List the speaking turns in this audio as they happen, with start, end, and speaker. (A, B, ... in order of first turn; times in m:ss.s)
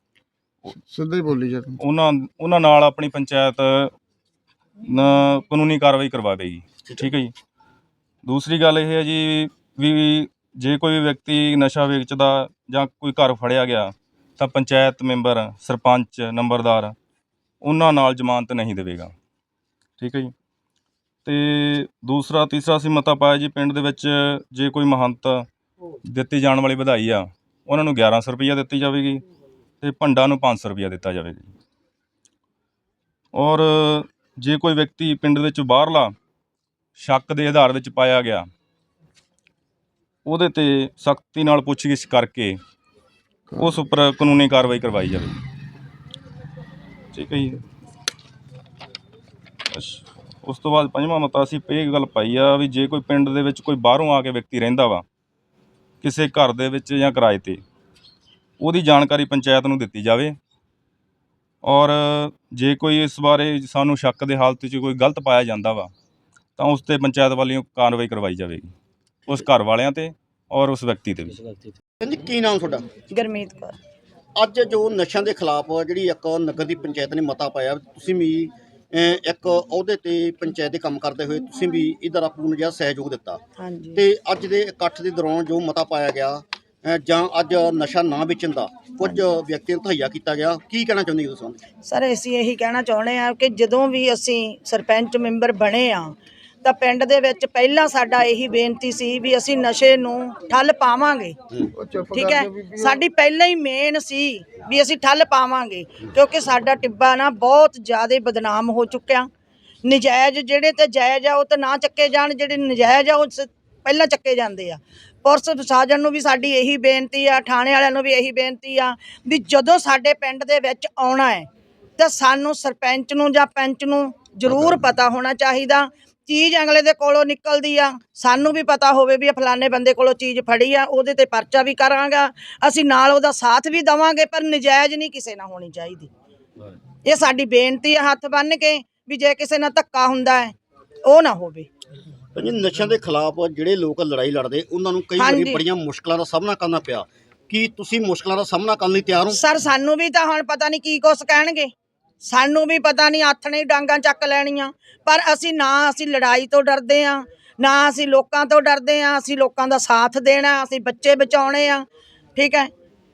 0:00.9-0:01.8 A
0:01.8-0:03.9 B
0:04.8-0:07.3 B
0:06.8-0:07.1 C
0:08.2-0:16.9 B
0:17.6-0:19.1 B
0:20.0-0:20.3 B
0:21.2-0:25.4 B
0:26.1-0:29.2 B
0:29.8-0:31.5 B
0:33.3-0:36.1 B
0:37.0-0:38.5 B
0:40.2-0:42.6 B
0:43.6-0:45.4 B
0:47.1-0:47.6 B
0:49.7-0:55.0 B
0:56.0-0:57.6 B
0:58.6-1:00.4 B
1:01.6-1:05.9 B
1:06.6-1:08.7 B
1:09.3-1:11.4 B
1:12.0-1:12.8 C
1:13.1-1:13.8 D
1:14.4-1:23.4 C
1:23.6-1:24.0 D
1:24.0-1:31.6 C
1:31.8-1:41.3 D
1:41.8-1:43.0 A
1:42.1-1:49.3 D
1:49.8-2:01.5 D
2:02.0-2:16.1 D
2:17.0-2:20.5 D
2:21.0-2:21.7 D
2:22.3-2:29.4 C
2:25.2-2:25.6 D
2:29.3-2:31.7 D
2:32.2-2:41.8 D
2:42.4-2:42.7 D